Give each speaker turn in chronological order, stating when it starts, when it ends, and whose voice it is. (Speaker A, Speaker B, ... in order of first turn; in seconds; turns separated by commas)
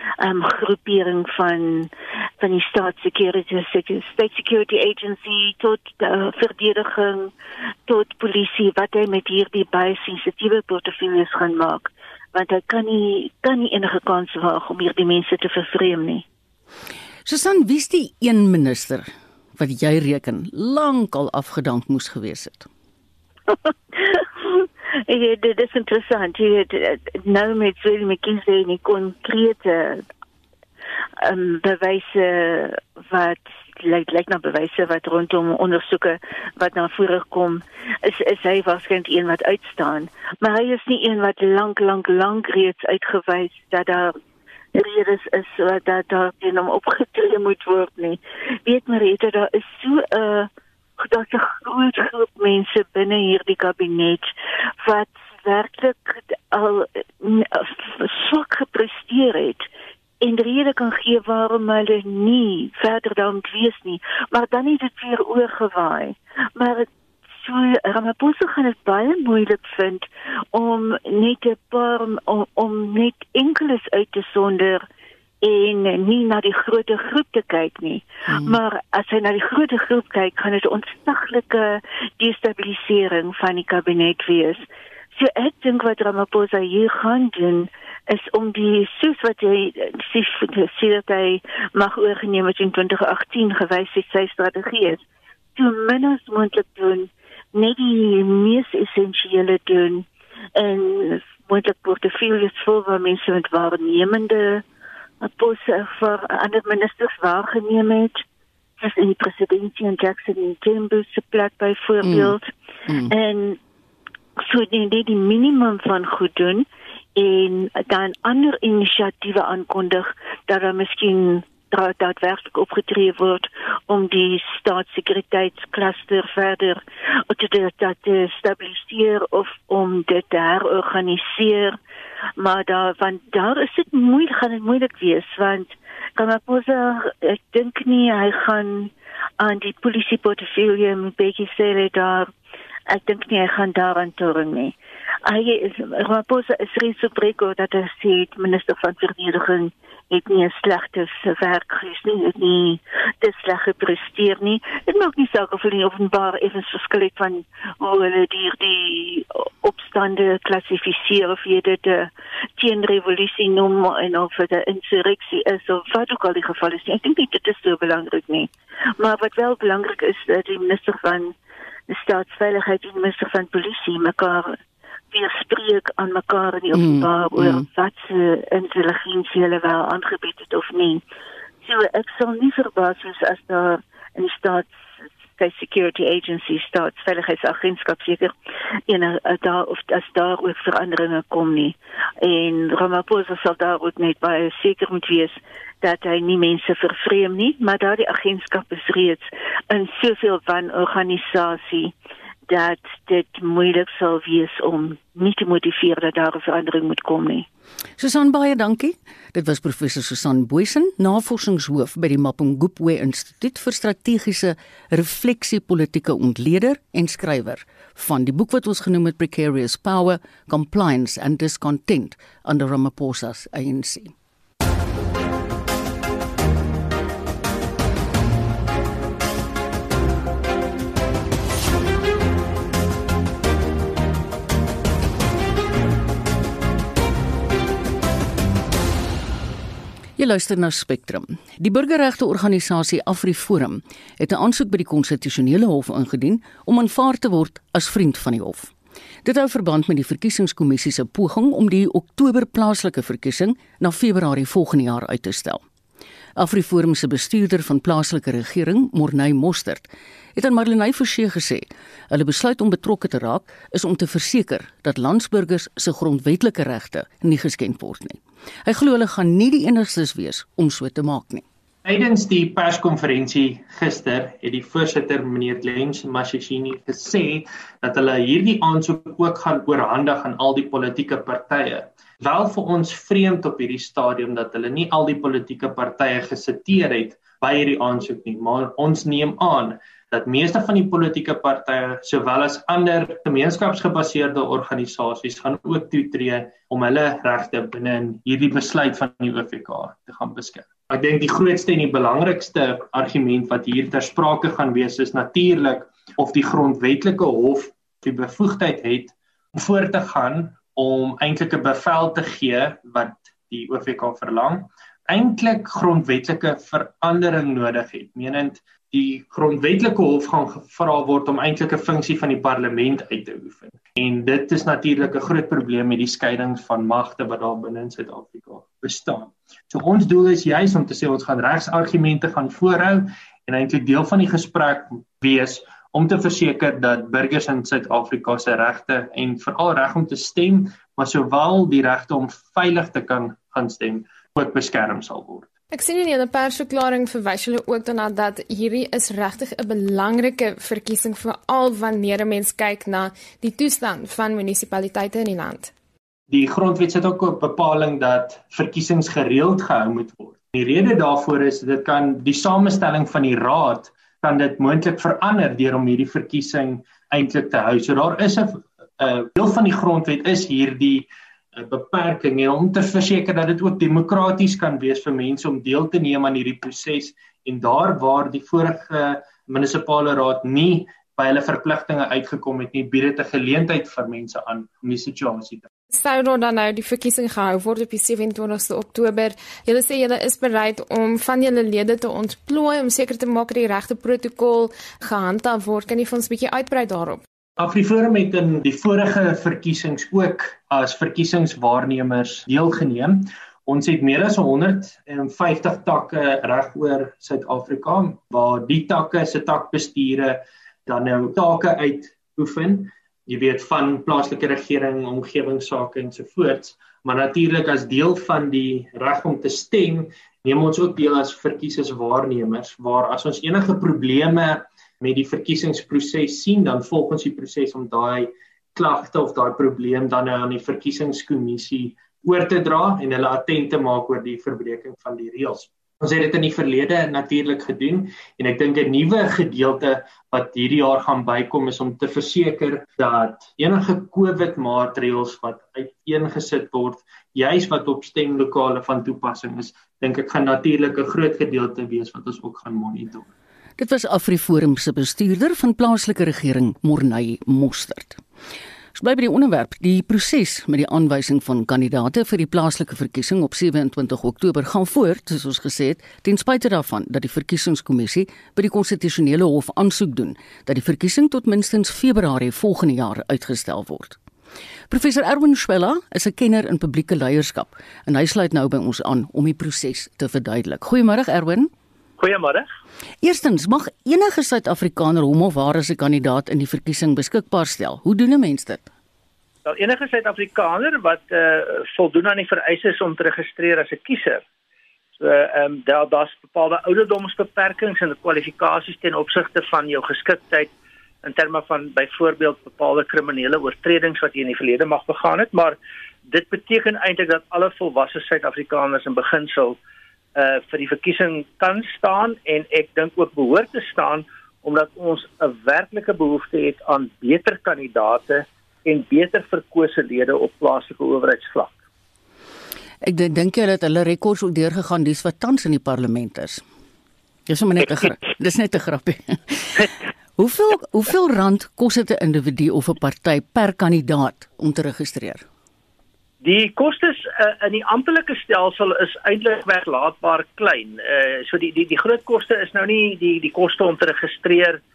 Speaker A: 0.2-7.3, Speaker A: 7.9-16.2, Speaker B: 17.2-22.7, Speaker A: 23.5-30.1, Speaker A: 31.2-44.1, Speaker A: 44.7-54.3, Speaker A: 54.8-59.7, Speaker A: 60.2-66.9, Speaker A: 67.4-74.8, Speaker A: 75.4-84.7, Speaker B: 78.3-78.6, Speaker A: 85.2-95.0, Speaker A: 95.6-100.0, Speaker A: 100.6-104.6, Speaker A: 105.2-108.2, Speaker A: 108.8-112.5, Speaker B: 112.0-112.4, Speaker A: 113.1-113.6, Speaker A: 114.4-131.8, Speaker A: 132.4-142.3, Speaker A: 142.9-144.8, Speaker A: 145.3-171.3, Speaker A: 171.9-174.6, Speaker A: 175.1-181.0, Speaker B: 176.7-177.7, Speaker A: 181.6-184.7, Speaker A: 185.4-188.3, Speaker A: 188.9-201.9, Speaker A: 202.5-207.5, Speaker B: 208.0-224.1, Speaker B: 240.2-248.7, Speaker B: 249.2-255.6, Speaker B: 256.4-271.4, Speaker C: 271.9-345.5, Speaker D: 345.7-355.7, Speaker C: 356.3-385.7, Speaker D: 385.9-397.2, Speaker C: 397.6-453.3, Speaker B: 453.8-458.2, Speaker B: 458.9-474.2, Speaker B: 474.9-481.7, Speaker E: 482.2-482.7, Speaker B: 483.2-488.9, Speaker E: 489.7-494.4, Speaker E: 495.2-500.7, Speaker E: 501.2-509.8, Speaker E: 510.4-521.8, Speaker B: 523.0-526.6, Speaker B: 527.5-535.5, Speaker E: 536.4-544.8